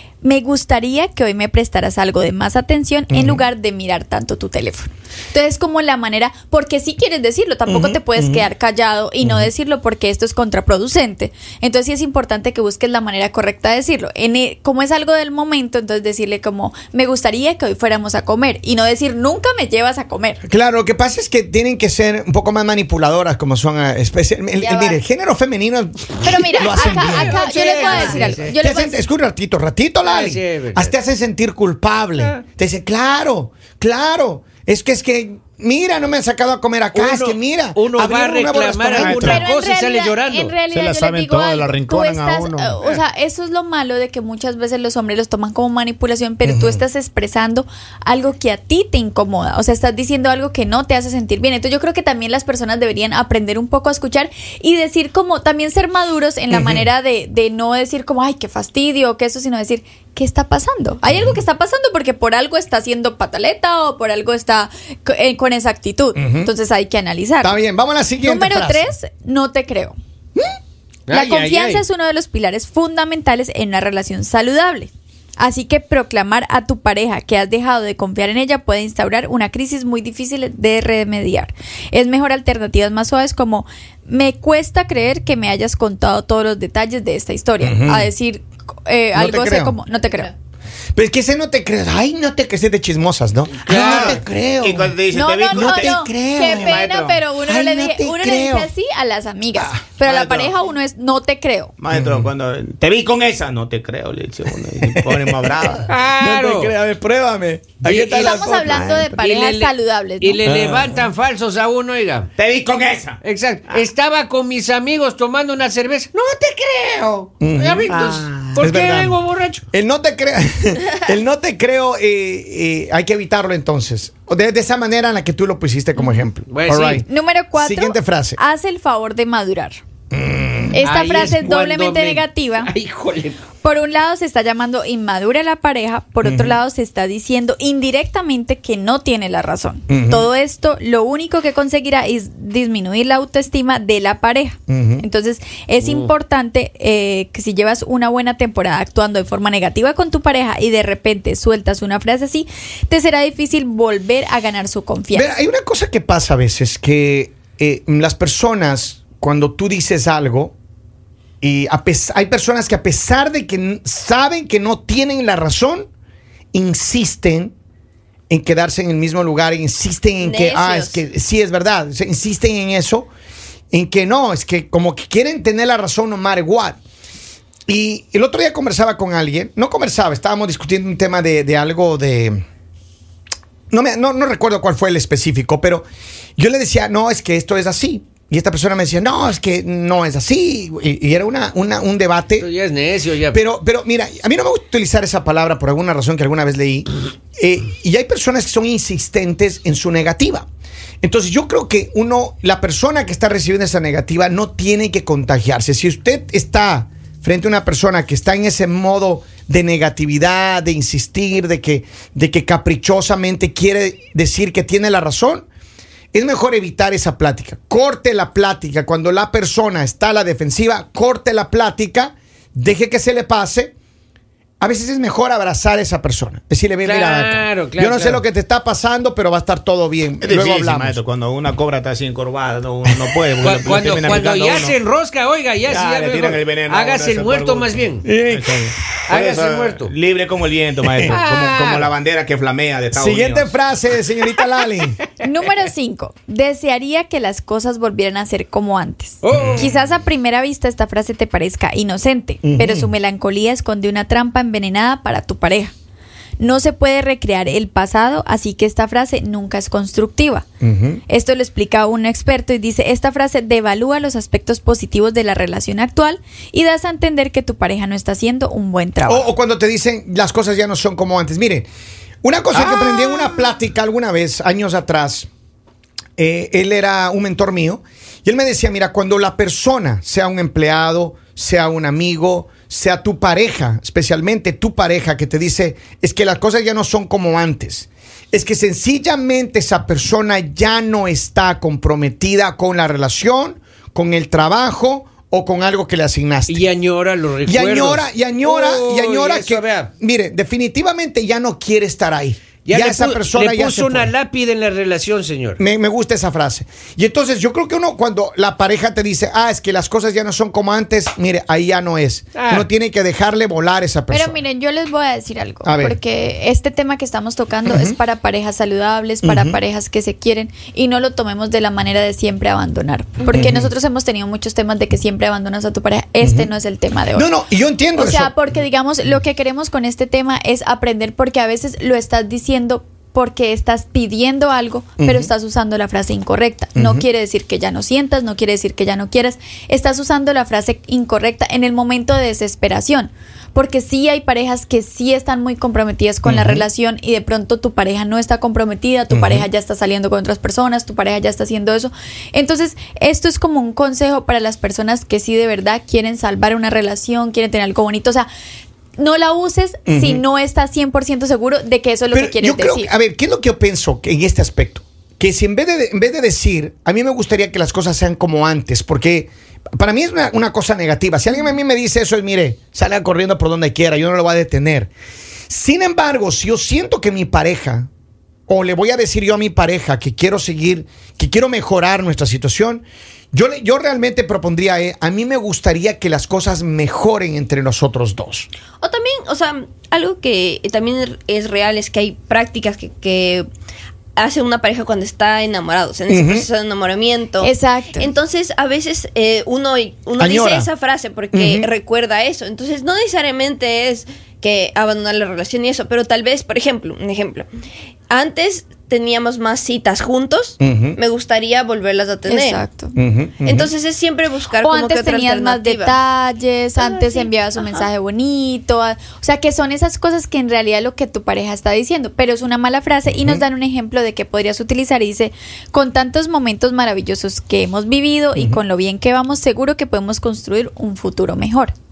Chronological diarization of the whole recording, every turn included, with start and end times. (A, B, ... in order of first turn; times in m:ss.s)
0:00.2-0:20.4 A
0:03.1-0:03.5 B
0:07.7-0:08.5 B
0:09.2-0:09.5 B
0:20.4-0:27.5 B
0:24.6-0:25.0 C
0:26.2-0:29.0 A
0:26.8-0:28.5 D
0:27.5-0:28.3 C
0:28.0-0:39.4 B
0:30.0-0:30.9 D
0:36.9-0:40.6 D
0:39.0-0:39.5 E
0:39.1-1:07.6 A
0:40.7-0:42.8 E
0:46.4-0:46.8 B
0:56.5-0:56.9 B
1:01.1-1:01.4 B
1:06.2-1:06.5 B
1:07.4-1:08.9 B
1:08.2-1:10.0 A
1:11.1-1:11.8 D
1:11.1-1:30.3 A
1:27.6-1:28.1 B
1:29.1-1:29.8 B
1:30.0-1:30.3 C
1:31.0-1:34.9 B
1:33.6-1:34.1 D
1:33.7-1:37.2 E
1:35.1-1:41.7 A
1:35.5-1:36.8 B
1:37.4-1:38.7 B
1:39.6-1:39.8 B
1:40.0-1:40.5 E
1:41.8-1:46.0 E
1:41.9-1:42.3 B
1:44.9-1:49.1 B
1:45.9-1:46.7 D
1:47.8-1:48.4 D
1:48.2-1:50.4 A
1:49.1-1:52.3 D
1:50.5-1:51.0 B
1:52.4-1:53.8 E
1:53.2-1:59.6 D
1:57.4-1:59.2 B
1:57.9-1:58.6 E
1:59.7-2:07.1 B
2:06.5-2:07.0 D
2:07.1-2:09.8 A
2:07.6-2:08.4 B
2:10.1-2:10.8 B
2:10.7-2:12.7 A
2:10.8-2:13.4 D
2:13.6-2:35.3 A
2:16.2-2:16.6 B
2:19.9-2:20.3 B
2:24.7-2:25.0 B
2:25.8-2:26.1 D
2:35.1-2:40.5 B
2:41.4-2:45.9 B
2:46.5-2:47.5 B
2:48.3-2:53.1 B
2:50.2-2:51.0 C
2:53.7-2:56.8 B
2:57.7-3:02.4 B
3:03.7-3:05.8 B
3:06.4-3:12.5 B
3:12.4-3:13.4 D
3:13.3-3:20.5 B
3:21.0-3:35.5 B
3:36.1-3:43.7 B
3:44.6-3:51.0 B
3:46.8-3:48.2 D
3:50.2-3:54.8 E
3:53.4-3:58.1 D
3:55.6-4:03.5 E
3:58.0-3:58.7 B
3:59.1-3:59.9 D
4:00.8-4:01.2 B
4:01.1-4:01.9 D
4:02.9-4:05.0 B
4:05.2-4:15.7 A
4:09.2-4:09.7 D
4:09.3-4:09.6 B
4:12.4-4:12.9 B
4:16.4-4:20.4 A
4:20.6-4:21.0 B
4:21.1-4:29.3 A
4:29.1-4:31.7 B
4:32.2-4:35.3 B
4:32.6-4:33.5 A
4:36.2-4:56.6 B
4:56.5-4:59.9 D
4:57.4-5:04.1 B
5:02.7-5:05.6 D
5:05.6-5:14.4 B
5:12.4-5:12.7 D
5:14.1-5:27.3 A
5:15.6-5:16.0 B
5:17.7-5:18.0 B
5:19.2-5:19.6 B
5:23.3-5:23.7 B
5:26.2-5:26.5 B
5:27.1-5:28.3 B
5:28.0-5:58.3 A
5:35.0-5:35.3 B
5:36.8-5:37.0 B
5:46.2-5:46.6 B
5:49.1-5:49.5 B
5:59.0-6:02.9 A
5:59.9-6:00.2 B
6:02.1-6:14.9 B
6:15.5-6:17.9 B
6:18.5-6:28.5 B
6:28.8-6:33.5 C
6:34.2-6:47.5 C
6:36.1-6:36.5 B
6:37.4-6:38.1 A
6:40.2-6:40.7 B
6:41.3-6:41.7 B
6:48.1-6:52.6 C
6:50.6-6:51.0 B
6:52.3-6:53.0 A
6:53.0-6:53.7 B
6:53.4-6:56.0 C
6:54.6-7:11.7 A
6:56.8-6:57.9 C
7:03.1-7:03.4 B
7:08.4-7:08.6 B